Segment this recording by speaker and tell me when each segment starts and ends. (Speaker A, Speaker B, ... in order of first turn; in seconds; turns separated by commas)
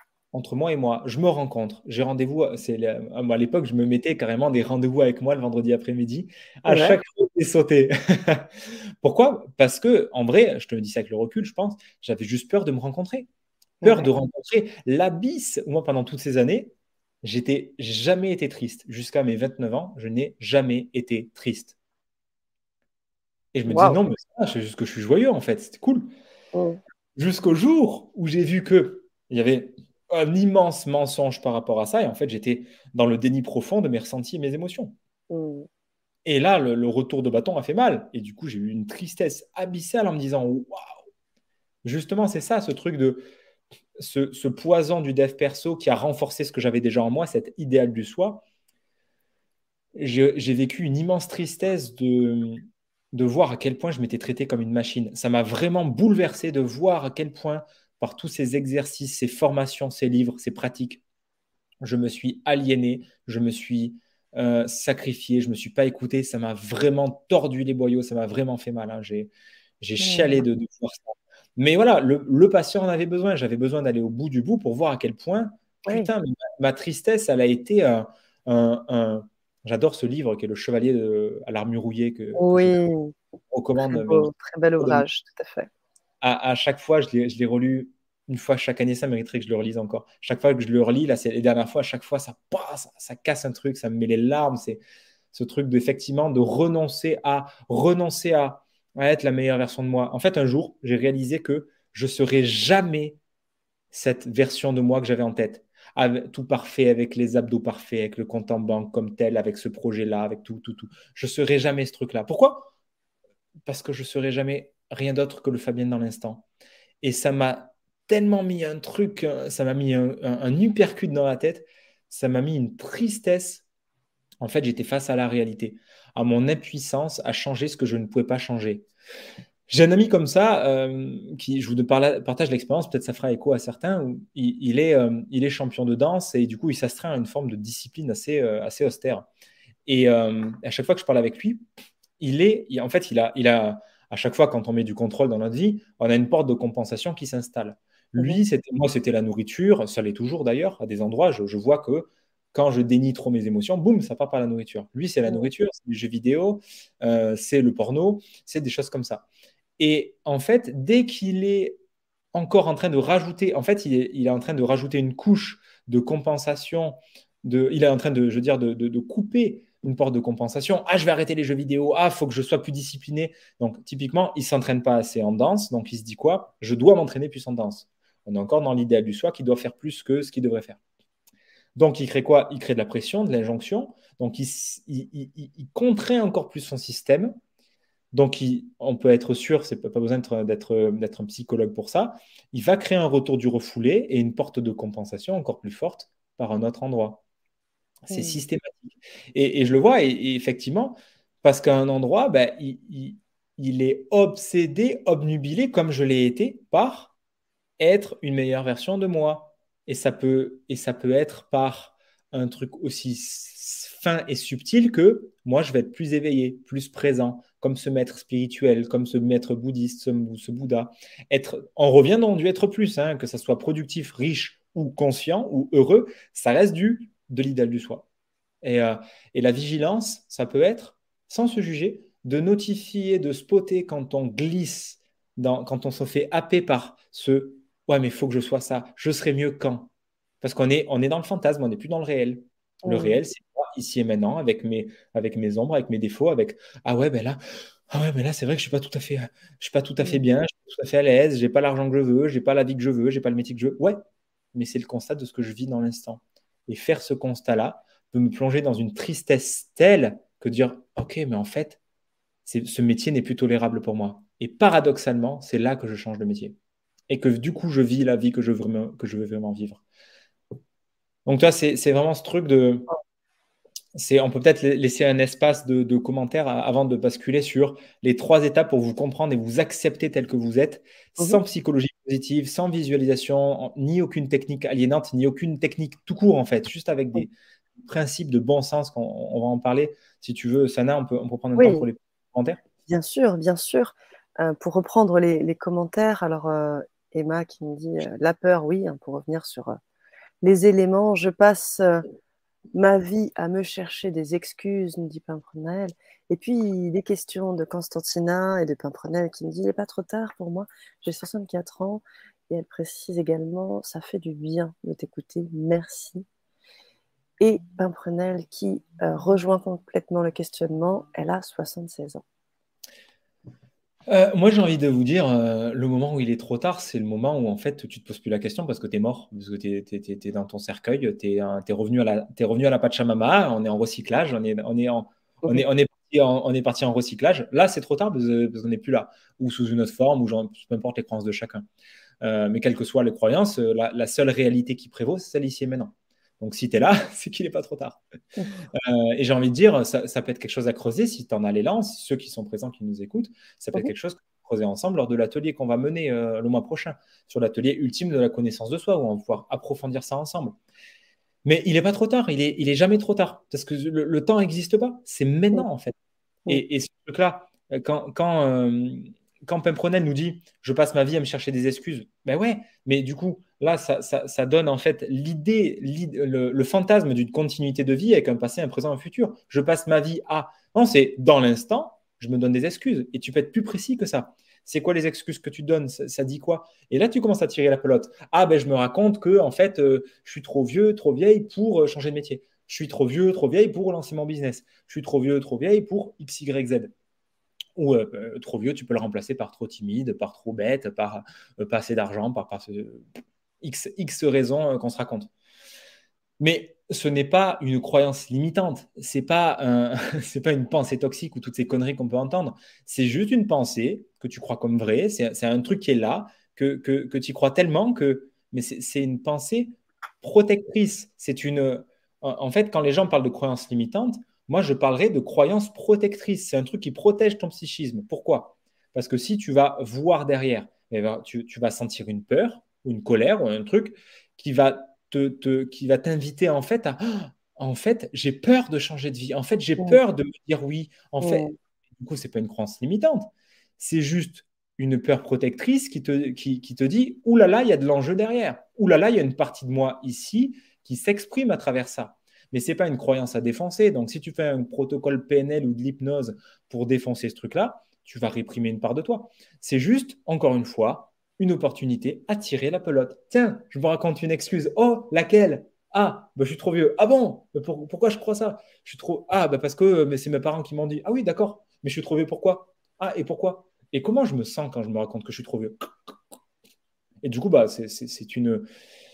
Speaker A: 0.3-8.5, Speaker B: 6.7-7.0, Speaker A: 9.0-13.3, Speaker B: 13.8-14.1, Speaker A: 13.8-21.8, Speaker A: 23.5-26.1, Speaker B: 23.7-24.0, Speaker B: 26.5-26.8, Speaker A: 27.1-34.9, Speaker B: 35.3-35.7, Speaker A: 36.2-40.9, Speaker A: 41.8-43.3, Speaker A: 44.0-48.4, Speaker A: 49.9-61.0, Speaker A: 61.8-71.0, Speaker B: 70.0-70.4, Speaker A: 71.5-82.8, Speaker B: 82.3-83.1, Speaker A: 83.5-85.0, Speaker B: 83.8-85.7, Speaker A: 86.2-94.8, Speaker A: 95.3-103.2, Speaker A: 103.9-112.7, Speaker A: 113.6-116.4, Speaker A: 117.0-123.6, Speaker A: 124.4-128.9, Speaker A: 129.7-139.3, Speaker A: 139.8-141.6, Speaker A: 142.2-159.2, Speaker A: 159.8-161.8, Speaker A: 162.3-180.8, Speaker A: 181.7-187.3, Speaker A: 188.1-197.2, Speaker A: 198.1-207.1, Speaker B: 198.1-198.4, Speaker A: 207.8-228.1, Speaker A: 228.6-247.4, Speaker B: 242.8-243.2, Speaker A: 247.9-254.0, Speaker A: 254.5-261.8, Speaker A: 262.4-266.6, Speaker A: 267.1-269.8, Speaker A: 271.2-272.9, Speaker A: 273.9-292.6, Speaker B: 291.6-291.9, Speaker B: 292.9-299.8, Speaker B: 300.4-302.0, Speaker B: 302.7-316.2, Speaker B: 317.4-322.2, Speaker A: 324.1-341.6, Speaker A: 342.2-348.0, Speaker A: 348.7-360.6, Speaker A: 361.4-365.9, Speaker A: 366.5-396.9, Speaker A: 397.8-403.1, Speaker A: 403.6-405.3, Speaker A: 406.4-475.8, Speaker B: 441.2-441.5, Speaker A: 477.2-478.6